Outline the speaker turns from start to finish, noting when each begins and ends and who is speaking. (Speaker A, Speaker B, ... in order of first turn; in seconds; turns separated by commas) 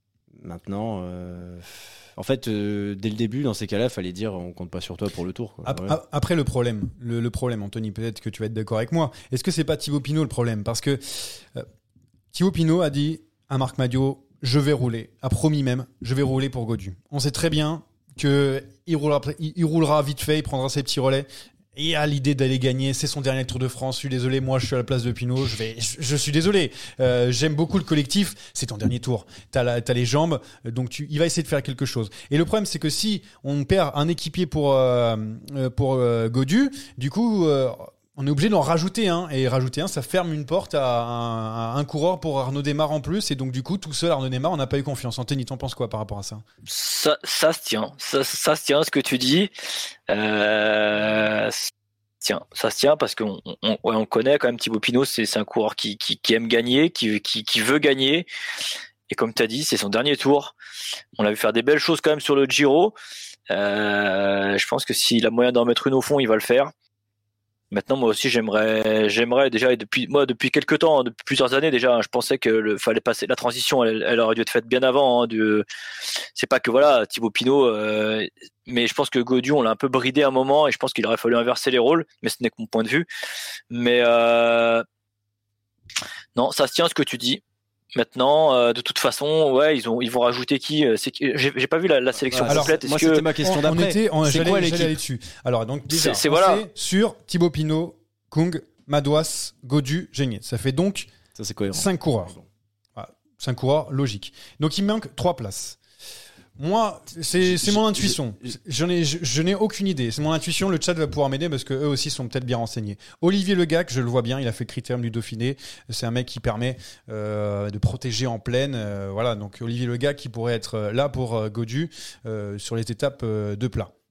Speaker A: 0.4-6.0, Speaker B: 5.7-11.7, Speaker B: 12.3-46.4, Speaker C: 46.7-49.5, Speaker C: 50.1-51.7, Speaker C: 52.2-58.3, Speaker C: 59.1-60.5, Speaker C: 61.2-63.0, Speaker C: 63.5-66.7, Speaker C: 67.7-75.7, Speaker C: 76.4-83.1, Speaker C: 83.7-84.8, Speaker C: 86.4-87.4, Speaker C: 88.0-93.2, Speaker A: 92.3-95.0, Speaker B: 92.5-92.8, Speaker B: 93.4-101.1, Speaker C: 95.9-96.7, Speaker A: 101.3-102.5, Speaker B: 101.7-102.3, Speaker B: 103.0-105.8, Speaker B: 106.6-123.9, Speaker A: 107.4-108.5